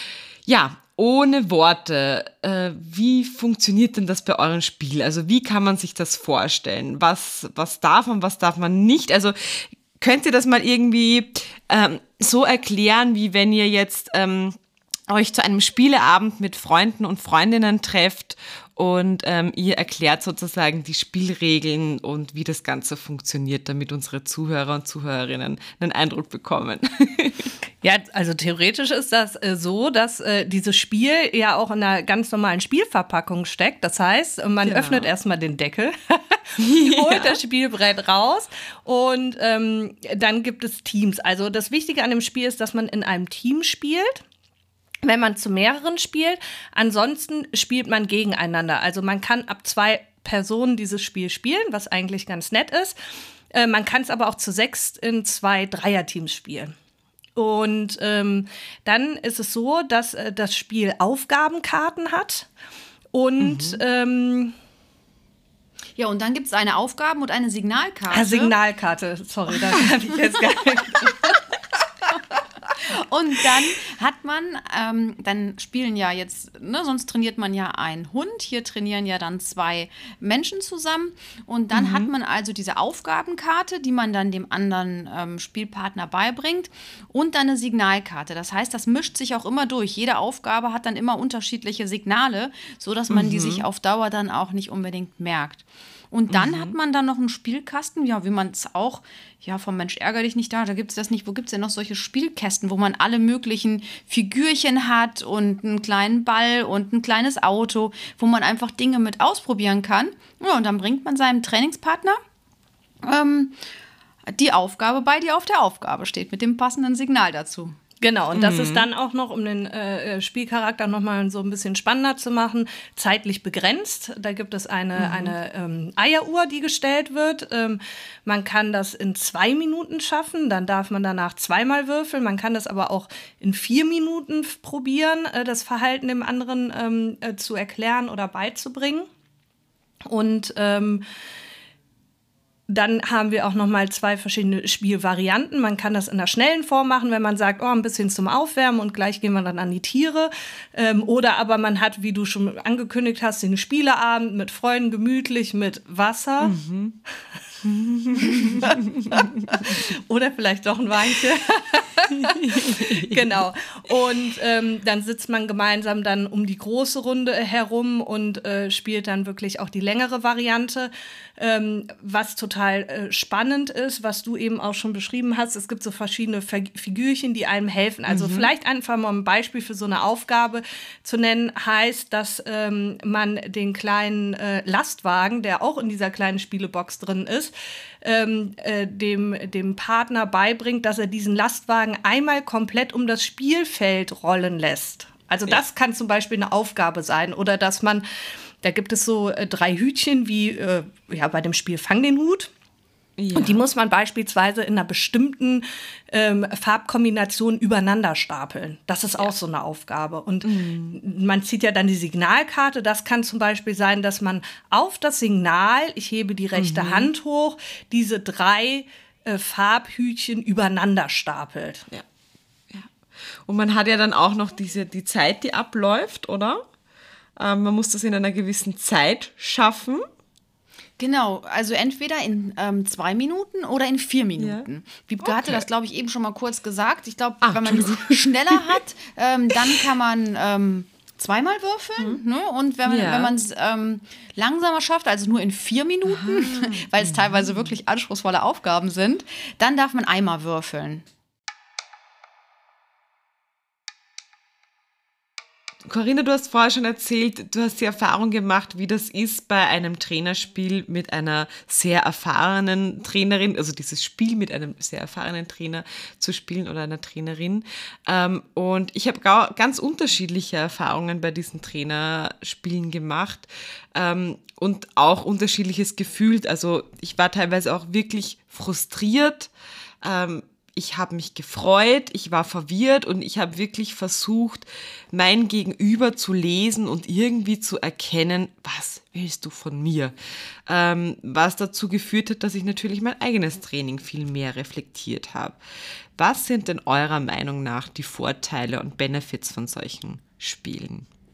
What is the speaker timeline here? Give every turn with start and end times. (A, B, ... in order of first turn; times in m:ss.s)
0:00.4-0:27.5 A
0:27.8-0:44.2 B
0:34.6-0:35.1 A
0:36.6-0:37.4 A
0:45.0-0:53.0 B
0:53.5-0:56.7 B
0:57.4-1:02.5 B
1:03.1-1:04.5 B
1:03.4-1:03.8 A
1:06.0-1:08.5 C
1:08.1-1:11.4 B
1:12.8-1:52.2 C
1:21.7-1:22.1 A
1:33.1-1:33.6 A
1:36.3-1:36.7 A
1:53.0-1:53.6 C
1:54.3-1:57.7 C
1:58.0-2:19.1 B
1:58.3-1:58.9 A
2:05.0-2:05.3 A
2:20.1-2:21.0 B
2:22.7-2:36.6 B
2:36.4-2:37.0 A
2:37.6-2:39.8 A
2:39.6-3:18.0 B
2:42.1-2:43.4 A
2:58.1-2:58.5 A
3:18.6-3:22.5 B
3:23.2-3:23.6 A
3:23.3-3:41.9 B
3:30.4-3:31.0 A
3:36.6-3:37.1 A
3:42.7-3:46.6 A
3:47.4-3:50.0 A
3:51.0-4:11.0 C
3:54.4-3:54.6 A
3:55.2-3:55.6 A
3:57.4-3:58.8 A
4:02.8-4:03.3 A
4:06.1-4:07.7 A
4:15.8-4:39.5 A
4:40.0-4:50.1 A
4:50.7-4:55.6 A
4:56.2-5:01.1 A